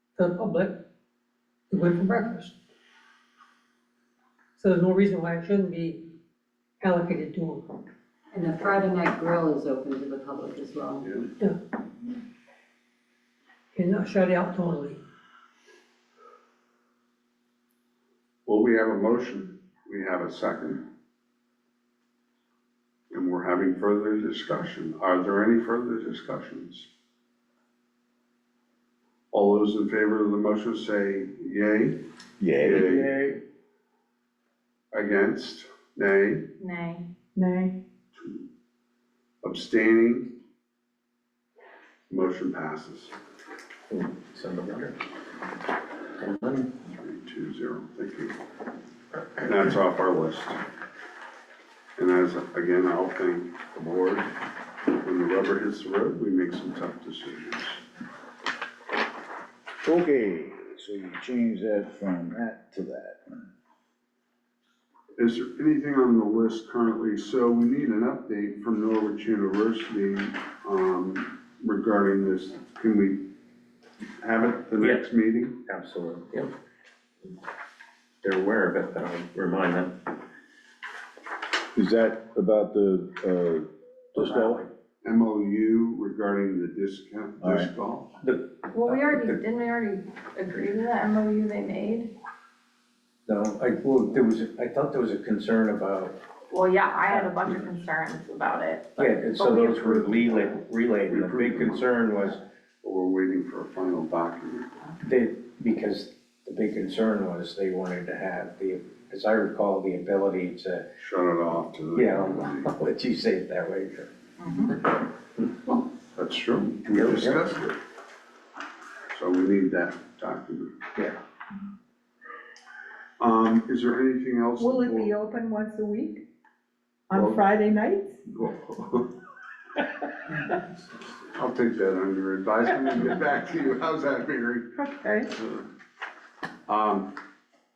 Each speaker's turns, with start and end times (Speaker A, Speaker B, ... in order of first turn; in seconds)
Speaker A: 0.1-0.8, 1.7-2.5, 4.6-6.1, 6.8-7.8, 13.7-15.0
Speaker B: 8.3-11.1
Speaker C: 11.0-11.3, 18.4-20.8, 23.1-26.9, 29.3-32.0, 32.6-33.1, 34.9-36.5, 39.4-40.3, 42.1-43.1, 47.0-48.4, 49.4-50.6, 52.0-54.3, 54.9-57.8, 65.2-73.2, 74.2-75.5, 85.0-88.1, 101.1-101.8, 102.8-104.7, 111.0-112.7, 115.6-117.8, 119.1-120.7, 123.2-125.1, 127.1-127.4, 128.3-129.1, 131.3-134.7, 135.3-135.7, 136.7-137.1
Speaker D: 32.4-32.9, 59.8-63.3, 81.7-84.6, 87.4-87.7
Speaker E: 32.9-33.4, 43.9-45.0, 46.2-46.7, 74.8-75.0, 75.7-76.5, 78.2-80.0, 84.2-84.7, 88.2-89.4, 93.2-96.2, 99.0-102.4, 105.0-110.9, 111.9-114.1, 116.9-117.5
Speaker F: 36.6-37.0, 88.7-92.1, 96.5-100.5, 114.4-114.7
Speaker G: 37.4-37.8, 124.6-126.2, 127.1-128.2, 134.8-135.3